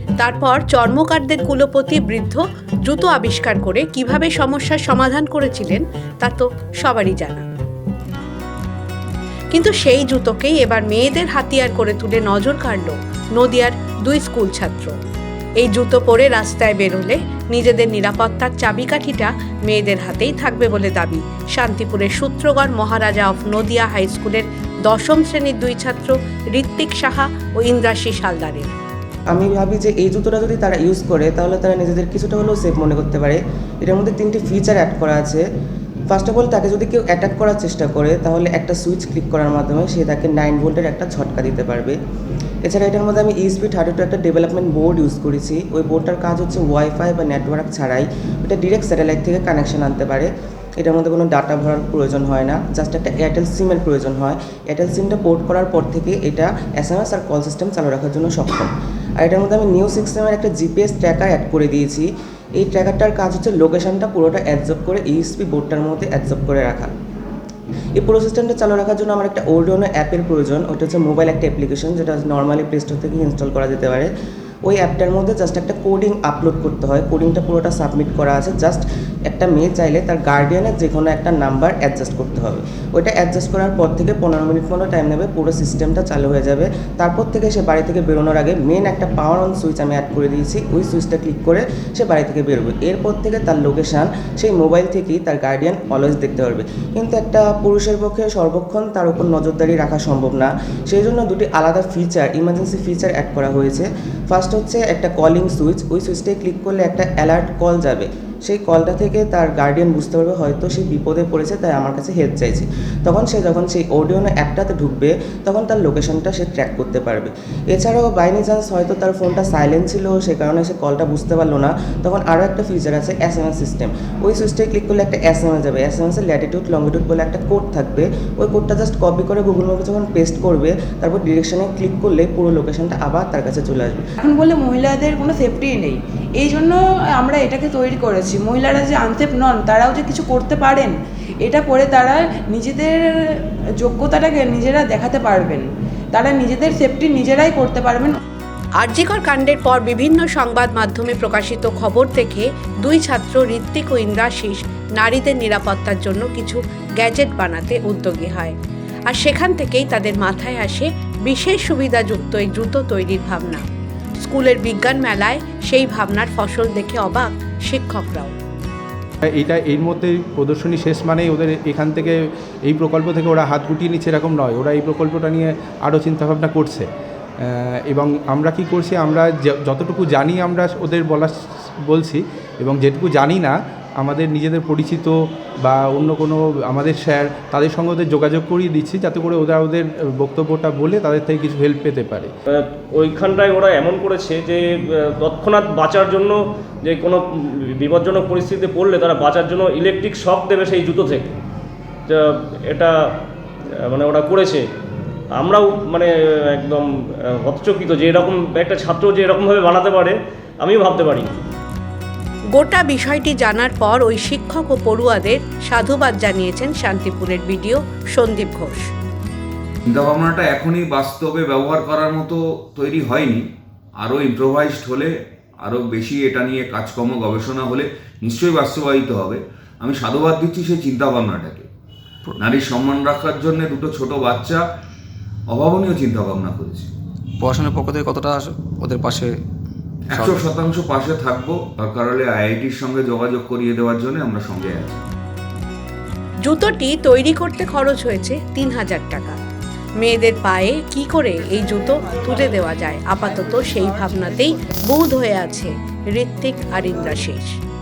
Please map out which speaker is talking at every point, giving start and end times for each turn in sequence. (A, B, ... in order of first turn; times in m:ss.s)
0:00.2-0:07.4 A
0:09.5-0:15.0 A
0:15.6-0:28.7 A
0:29.3-0:35.4 B
0:36.1-0:42.0 B
0:42.6-1:06.9 B
1:08.0-1:14.1 B
1:14.6-2:14.0 B
2:14.2-2:23.1 C
2:23.8-2:28.2 C
2:28.8-2:38.6 A
2:39.1-2:43.6 A
2:44.2-2:48.3 A
2:49.3-2:56.9 D
2:57.4-3:01.3 D
3:01.9-3:12.3 D
3:12.5-3:21.3 E
3:22.1-3:22.9 E
3:23.9-3:24.6 E
3:25.3-3:26.8 E
3:27.4-3:31.3 E
3:32.6-3:38.9 A
3:39.9-3:43.4 F
3:44.0-3:45.1 F
3:45.6-3:51.7 F
3:52.4-3:54.6 F
3:55.5-3:56.9 F
3:57.4-3:59.4 G
4:00.1-4:05.0 F
4:00.1-4:00.4 G
4:06.4-4:09.4 A
4:10.0-4:17.6 A